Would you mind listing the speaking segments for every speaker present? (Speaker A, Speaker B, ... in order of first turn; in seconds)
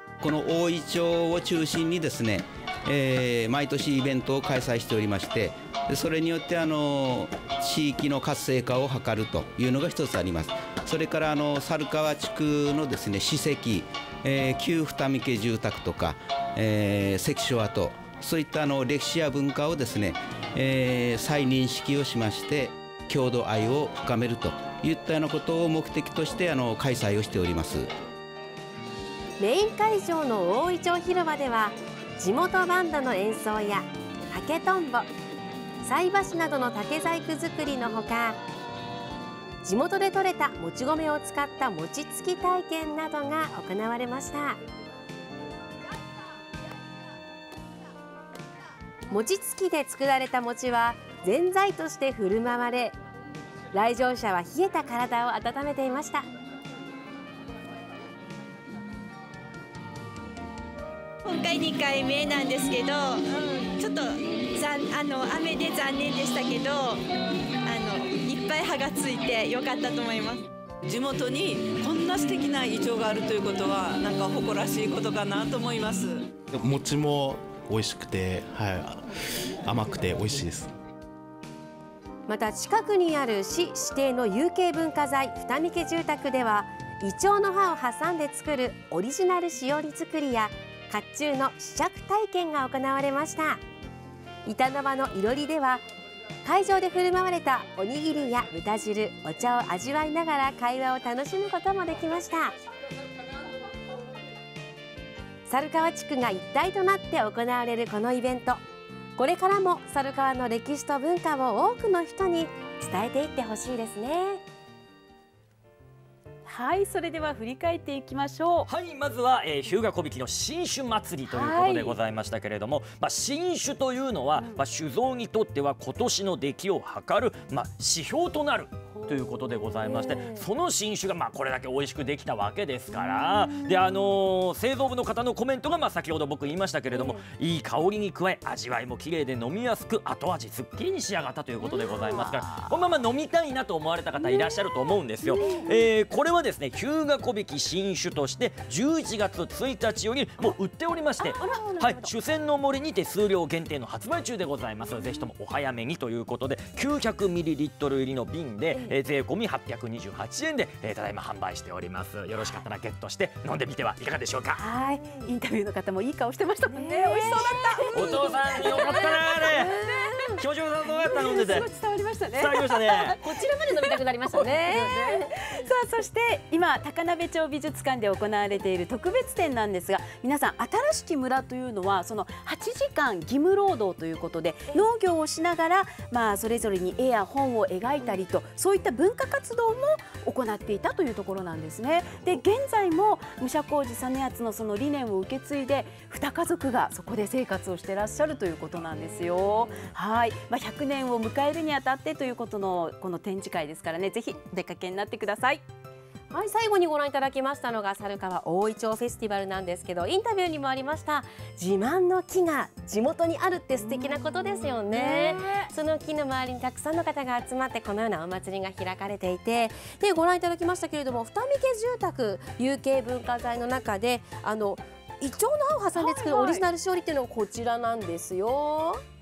Speaker A: 0.2-27.9
Speaker B: 29.4-35.1, 35.8-38.4, 39.6-44.6, 49.1-53.0, 53.7-56.3, 82.3-93.6, 94.5-95.8, 96.4-102.5, 105.5-108.6, 109.2-114.4, 166.7-170.3, 173.1-175.6, 206.3-229.0
Speaker C: 61.2-67.0, 67.6-70.5
Speaker D: 70.8-76.3
Speaker E: 76.5-80.7
Speaker F: 116.4-118.7, 121.2-122.0, 145.3-145.7, 151.2-152.1, 164.6-170.0, 171.0-173.3, 173.8-205.6, 214.9-215.6, 225.9-226.6
Speaker G: 118.7-164.6, 167.9-169.7, 170.4-171.7, 172.3-173.2